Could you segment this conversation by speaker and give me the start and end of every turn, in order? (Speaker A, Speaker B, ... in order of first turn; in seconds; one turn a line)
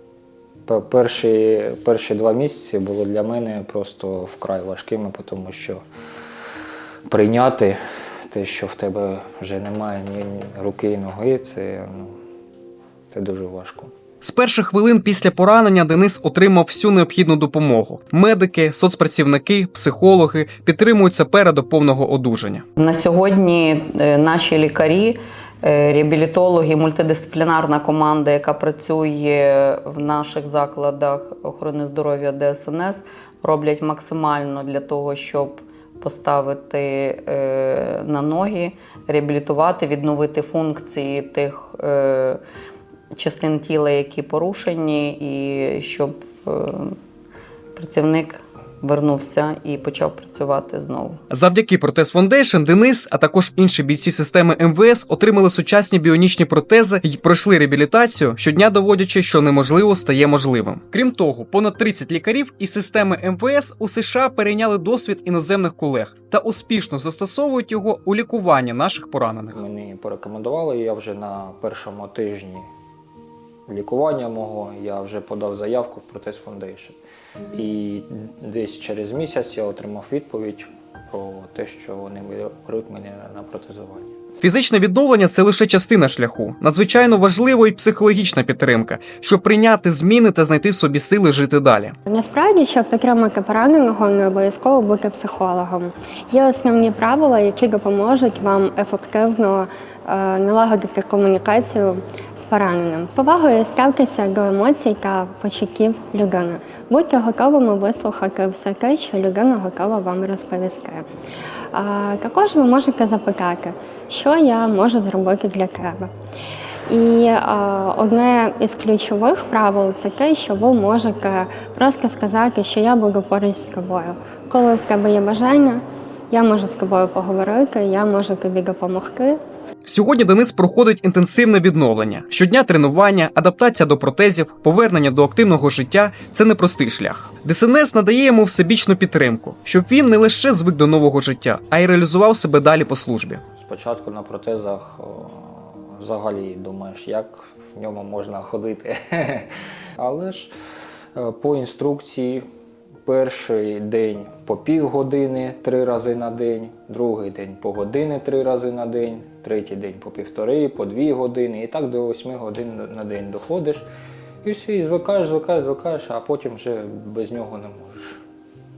Speaker A: 0.7-5.8
Speaker A: 7.1-12.2
Speaker A: 13.1-13.9
Speaker B: 14.2-22.6
Speaker C: 22.8-42.4
Speaker C: 43.1-47.0
Speaker C: 47.8-51.2
Speaker B: 51.3-69.6
Speaker A: 69.5-72.7
Speaker A: 73.7-77.0
Speaker A: 77.5-84.1
Speaker B: 84.4-91.9
Speaker D: 92.1-111.0
Speaker D: 111.7-116.1
Speaker D: 116.9-129.4
Speaker B: 129.8-143.4
Speaker A: 143.5-150.5
Speaker A: 151.2-152.4
Speaker A: 153.0-163.8
Speaker A: 164.4-168.2